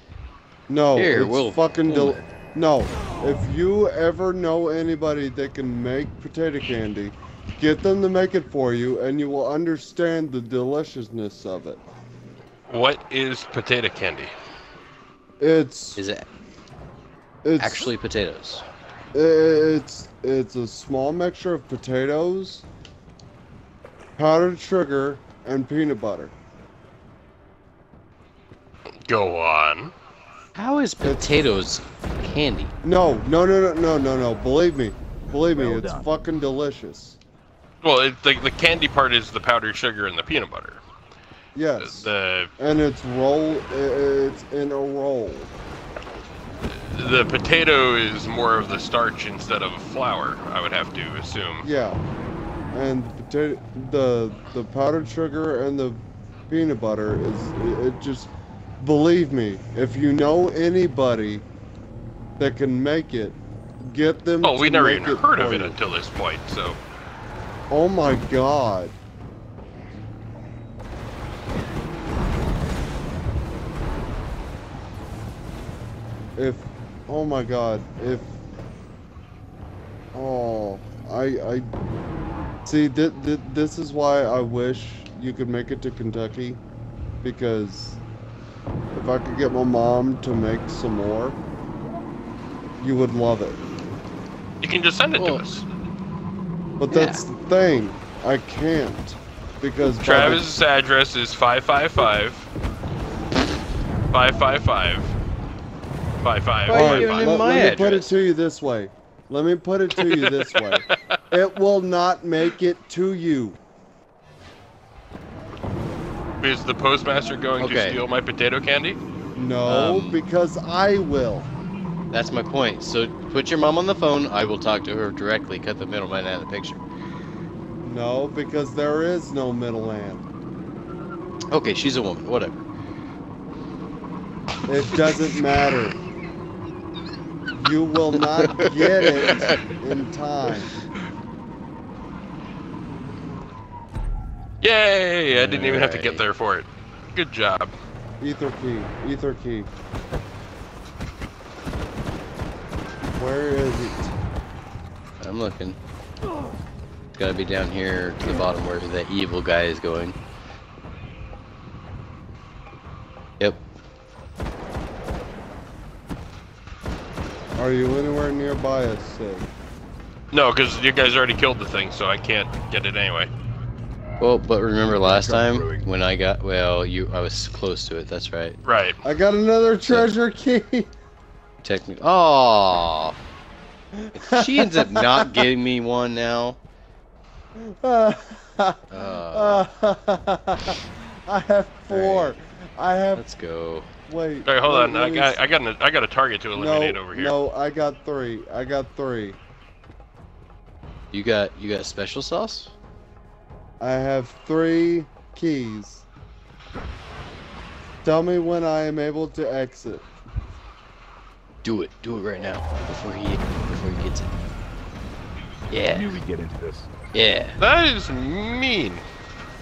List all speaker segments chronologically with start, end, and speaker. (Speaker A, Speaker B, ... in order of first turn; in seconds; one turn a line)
Speaker A: 0.7-11.8
Speaker B: 0.9-2.2
Speaker C: 12.7-14.3
Speaker A: 15.4-16.0
Speaker B: 15.9-16.2
Speaker A: 17.4-17.9
Speaker B: 17.6-18.6
Speaker A: 19.1-22.6
Speaker A: 24.2-26.3
Speaker C: 29.1-29.9
Speaker B: 30.5-32.7
Speaker A: 31.0-31.4
Speaker A: 32.8-37.2
Speaker D: 35.3-36.0
Speaker C: 37.8-40.8
Speaker A: 41.5-45.5
Speaker C: 41.8-42.5
Speaker C: 46.7-51.7
Speaker A: 51.6-52.0
Speaker A: 52.7-61.4
Speaker A: 62.4-65.8
Speaker C: 64.4-66.8
Speaker A: 67.7-69.0
Speaker A: 76.3-78.3
Speaker A: 80.1-81.7
Speaker A: 82.6-86.6
Speaker A: 87.2-88.0
Speaker A: 88.9-91.4
Speaker A: 92.8-93.6
Speaker C: 94.6-95.7
Speaker B: 95.2-95.4
Speaker A: 96.8-100.6
Speaker B: 96.9-97.2
Speaker C: 100.0-102.5
Speaker C: 104.1-105.1
Speaker C: 106.2-107.6
Speaker B: 106.7-108.2
Speaker A: 106.7-113.6
Speaker C: 110.0-110.8
Speaker C: 116.4-119.0
Speaker B: 117.6-118.0
Speaker A: 119.3-121.5
Speaker B: 119.7-120.2
Speaker B: 122.1-126.8
Speaker A: 127.8-130.3
Speaker B: 131.5-132.6
Speaker A: 134.7-136.0
Speaker A: 137.5-140.8
Speaker B: 138.3-139.7
Speaker C: 144.6-147.7
Speaker B: 145.3-146.2
Speaker A: 148.2-149.7
Speaker A: 153.1-154.1
Speaker B: 155.2-155.8
Speaker B: 157.1-160.2
Speaker A: 167.6-169.5
Speaker C: 170.3-173.3
Speaker B: 174.2-178.6
Speaker D: 174.9-175.9
Speaker C: 178.6-179.0
Speaker A: 179.0-180.9
Speaker B: 181.6-183.2
Speaker A: 183.9-185.5
Speaker B: 184.1-186.6
Speaker A: 187.6-193.2
Speaker B: 188.9-189.7
Speaker B: 191.9-192.4
Speaker B: 193.1-193.9
Speaker A: 194.1-195.4
Speaker C: 194.4-197.3
Speaker A: 196.5-199.4
Speaker B: 201.1-202.7
Speaker A: 203.8-206.0
Speaker A: 208.0-210.1
Speaker B: 211.6-214.3
Speaker B: 215.7-216.1
Speaker D: 215.9-216.9
Speaker B: 217.1-217.6
Speaker C: 217.6-219.0